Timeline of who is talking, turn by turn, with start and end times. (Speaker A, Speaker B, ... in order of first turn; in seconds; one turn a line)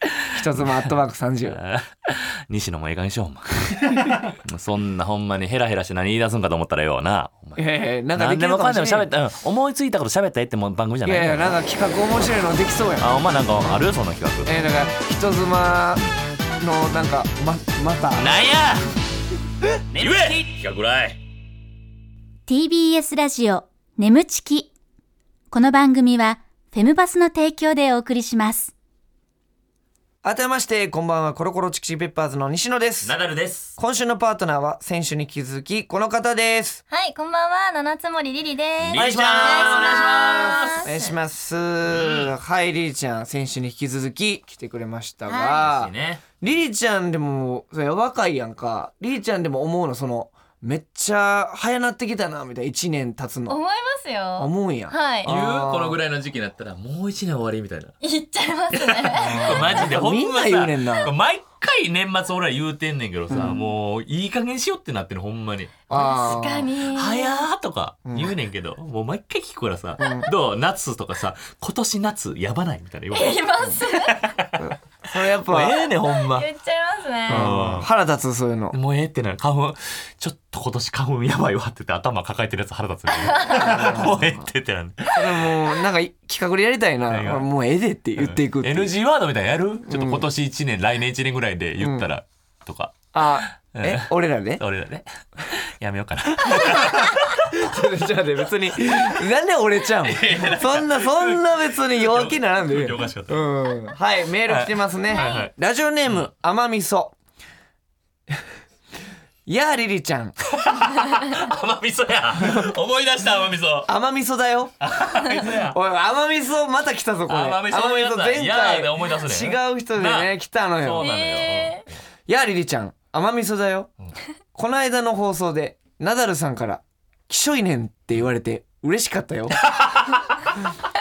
Speaker A: 0.3-1.6
Speaker B: 1.5-7.6
Speaker A: 7.6-9.1
Speaker B: 8.1-11.6
Speaker A: 11.0-13.1
Speaker B: 13.0-14.5
Speaker A: 14.4-16.0
Speaker A: 16.6-18.4
Speaker B: 18.1-18.9
Speaker B: 19.9-21.2
Speaker C: 22.5-24.7
Speaker C: 25.5-28.7
Speaker A: 30.2-33.1
Speaker B: 33.0-33.8
Speaker A: 33.8-36.8
Speaker D: 36.9-41.1
Speaker A: 38.9-53.6
Speaker B: 38.9-41.0
Speaker B: 41.9-42.3
Speaker D: 45.3-45.6
Speaker B: 45.5-46.3
Speaker D: 53.5-55.3
Speaker A: 54.4-56.0
Speaker B: 55.2-58.0
Speaker D: 58.0-59.8
Speaker B: 58.7-65.8
Speaker A: 59.2-61.1
Speaker A: 63.3-63.6
Speaker A: 65.9-66.7
Speaker D: 65.9-67.3
Speaker B: 66.9-76.5
Speaker A: 68.1-68.3
Speaker D: 73.1-74.2
Speaker A: 74.6-75.8
Speaker D: 76.2-77.5
Speaker B: 77.3-77.9
Speaker A: 77.3-78.8
Speaker B: 78.7-85.5
Speaker D: 83.3-83.6
Speaker A: 83.5-84.4
Speaker A: 85.1-88.9
Speaker B: 87.1-87.5
Speaker B: 88.2-97.6
Speaker A: 89.9-90.3
Speaker A: 91.8-92.1
Speaker A: 93.1-94.6
Speaker A: 96.4-107.2
Speaker B: 100.0-103.5
Speaker B: 104.5-105.5
Speaker D: 105.1-105.4
Speaker A: 109.5-110.4
Speaker B: 110.5-113.9
Speaker A: 112.4-112.7
Speaker A: 113.9-114.8
Speaker B: 114.8-115.8
Speaker A: 115.4-121.1
Speaker B: 117.3-121.9
Speaker D: 121.0-121.8
Speaker A: 122.3-123.9
Speaker A: 124.5-129.6
Speaker B: 129.6-130.4